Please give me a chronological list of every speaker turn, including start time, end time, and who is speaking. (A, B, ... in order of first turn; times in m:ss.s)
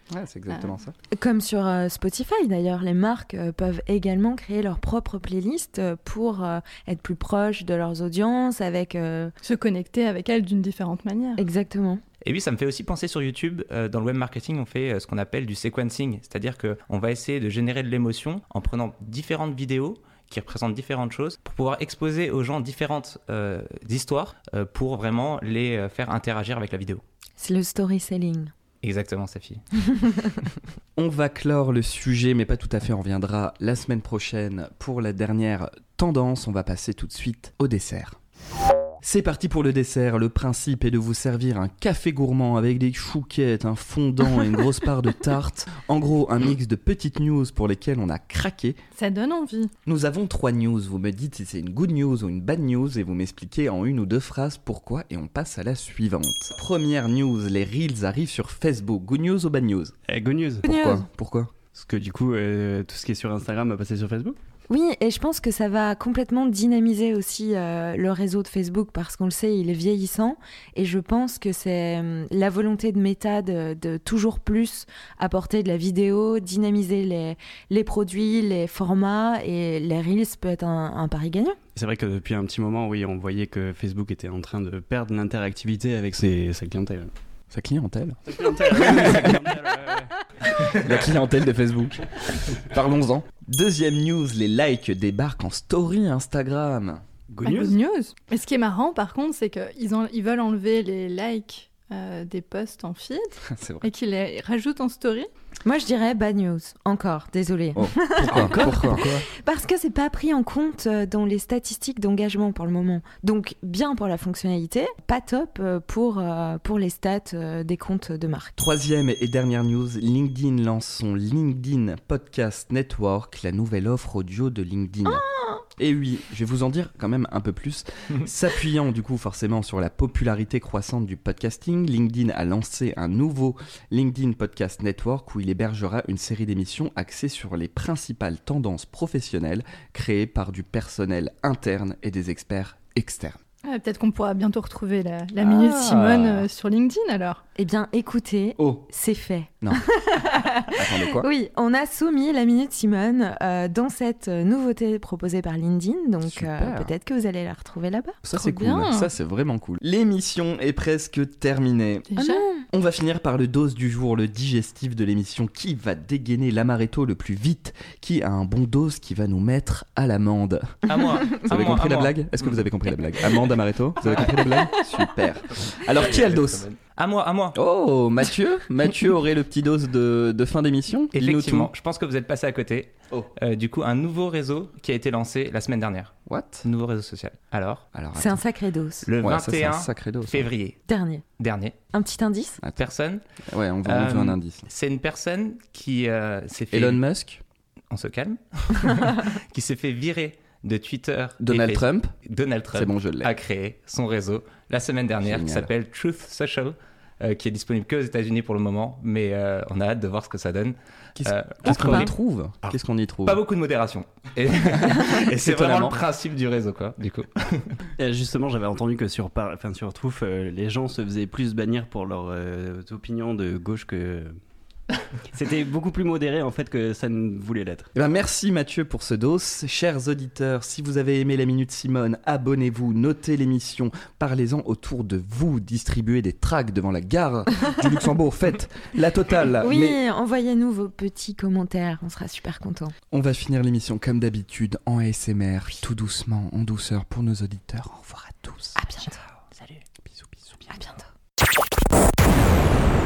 0:00.1-0:00.9 A
0:01.1-0:09.3 B
0:09.5-0:11.3 C
0:11.4-0:12.0 B
0:12.2-0:27.0 D
0:27.4-0:28.5 B
0:28.8-0:30.4 D
0:31.0-0:38.2 A
0:39.0-0:48.8 A
0:49.0-0:49.6 C
0:49.8-0:59.9 A
1:00.1-1:00.7 E
1:00.6-1:01.0 B
1:00.6-1:01.5 A
1:01.7-1:04.4 E
1:04.7-1:21.6 B
1:21.7-1:27.1 E
1:27.5-1:28.2 A
1:28.3-1:30.1 E
1:28.8-1:29.4 A
1:30.7-1:37.0 A
1:37.3-1:37.8 E
1:37.9-1:43.2 C
1:43.5-1:43.9 A
1:44.0-1:45.2 C
1:45.6-1:58.6 B
1:47.8-1:49.2 A
1:48.3-1:49.2 E
1:58.6-2:05.2 A
2:05.8-2:23.4 A
2:23.8-2:25.3 C
2:25.4-2:26.5 A
2:26.5-2:27.3 C
2:27.6-2:38.2 B
2:28.6-2:28.9 A
2:30.7-2:31.3 A
2:36.2-2:36.9 A
2:38.2-2:42.1 A
2:42.2-2:42.6 B
2:42.7-2:56.6 A
2:50.8-2:52.6 D
2:54.0-2:54.4 D
2:55.9-2:57.6 D
2:57.5-3:01.7 A
3:01.1-3:06.1 D
3:06.3-3:06.7 A
3:06.6-3:07.8 D
3:07.9-3:08.4 A
3:08.1-3:09.1 B
3:09.0-3:10.8 D
3:09.2-3:10.5 A
3:10.9-3:11.2 B
3:11.4-3:11.7 D
3:11.9-3:12.6 B
3:12.8-3:13.2 D
3:13.4-3:14.7 A
3:13.8-3:17.0 D
3:16.7-3:17.4 A
3:17.9-3:32.1 D
3:21.4-3:22.1 A
3:22.7-3:23.3 A
3:25.2-3:25.7 A
3:31.2-3:33.4 A
3:31.7-3:32.1 B
3:33.2-3:37.8 D
3:34.8-3:36.0 A
3:38.0-3:44.4 E
3:45.3-3:47.9 E
3:47.9-4:00.0 A
3:59.6-4:02.9 B
4:03.1-4:08.8 A
4:08.8-4:09.2 B
4:10.1-4:10.7 A
4:10.7-4:11.1 B